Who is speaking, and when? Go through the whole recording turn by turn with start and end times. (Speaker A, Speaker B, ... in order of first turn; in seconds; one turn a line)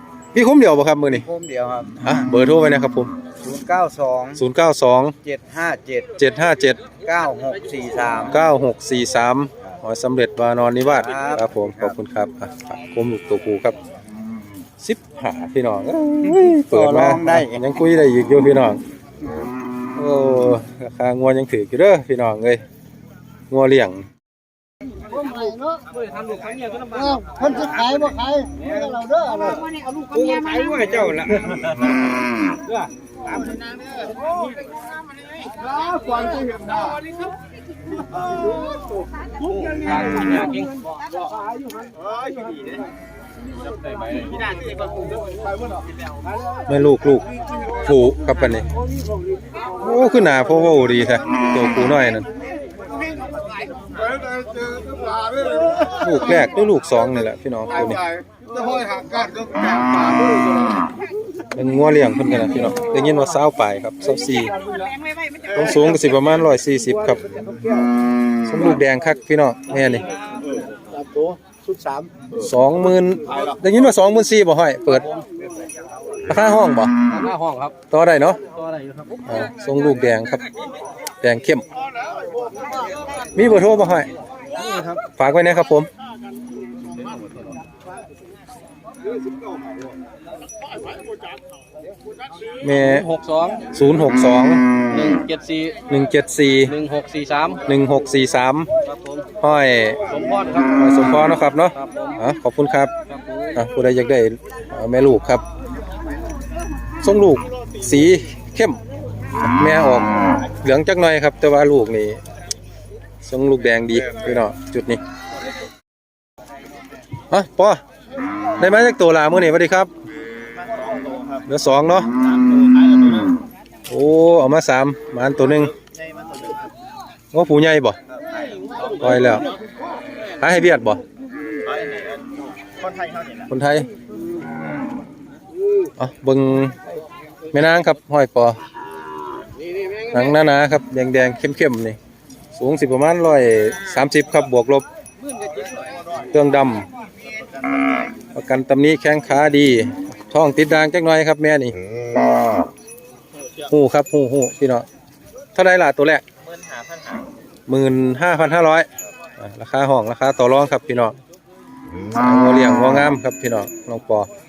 Speaker A: 0.3-1.3
Speaker B: 1.1-2.1
Speaker A: 2.0-3.1
Speaker B: 3.4-4.4
Speaker A: 4.3-5.2
Speaker B: 5.2-6.1
Speaker A: 6.2-6.9
Speaker B: 7.0-8.4
Speaker A: 8.3-13.8
Speaker B: 10.8-11.9
Speaker A: 14.8-18.8
Speaker B: 16.3-17.6
Speaker A: 19.9-22.6
Speaker A: 23.5-24.1
Speaker C: 25.9-29.5
Speaker D: 29.5-31.1
Speaker C: 30.1-31.5
Speaker E: 35.6-36.9
Speaker C: 39.7-40.7
Speaker C: 43.9-44.5
Speaker A: 46.7-48.7
Speaker A: 49.8-52.3
Speaker E: 54.0-55.7
Speaker A: 55.9-58.0
Speaker E: 58.0-60.8
Speaker A: 61.5-64.5
Speaker D: 64.0-66.0
Speaker A: 65.5-67.3
Speaker C: 67.4-67.8
Speaker A: 68.4-70.1
Speaker C: 71.0-72.1
Speaker A: 72.4-75.1
Speaker A: 76.3-76.9
Speaker C: 77.1-77.7
Speaker A: 77.9-78.4
Speaker C: 78.6-79.2
Speaker A: 79.2-80.4
Speaker A: 81.2-81.6
Speaker A: 83.3-84.1
Speaker C: 84.6-85.0
Speaker A: 85.2-85.9
Speaker A: 92.6-93.1
Speaker C: 92.8-93.6
Speaker A: 93.7-94.6
Speaker C: 94.9-95.8
Speaker A: 95.9-96.8
Speaker C: 96.7-97.6
Speaker A: 97.6-98.7
Speaker A: 99.4-100.0
Speaker C: 100.1-100.7
Speaker A: 100.7-102.9
Speaker C: 101.8-102.1
Speaker C: 103.1-103.4
Speaker A: 103.5-105.4
Speaker A: 107.0-108.8
Speaker A: 109.4-112.2
Speaker A: 113.2-115.0
Speaker A: 117.3-117.8
Speaker A: 118.6-119.9
Speaker A: 121.4-122.1
Speaker A: 123.9-125.7
Speaker C: 126.2-126.5
Speaker A: 127.3-128.0
Speaker A: 128.9-129.5
Speaker A: 130.4-131.0
Speaker C: 131.9-132.2
Speaker C: 133.1-133.4
Speaker A: 133.5-133.9
Speaker A: 136.0-136.8
Speaker A: 137.5-138.6
Speaker A: 140.1-142.0
Speaker A: 142.5-144.8
Speaker A: 146.3-146.9
Speaker A: 148.3-151.8
Speaker A: 153.7-154.8
Speaker A: 155.5-156.2
Speaker B: 156.5-157.2
Speaker A: 157.7-161.2
Speaker A: 162.1-164.3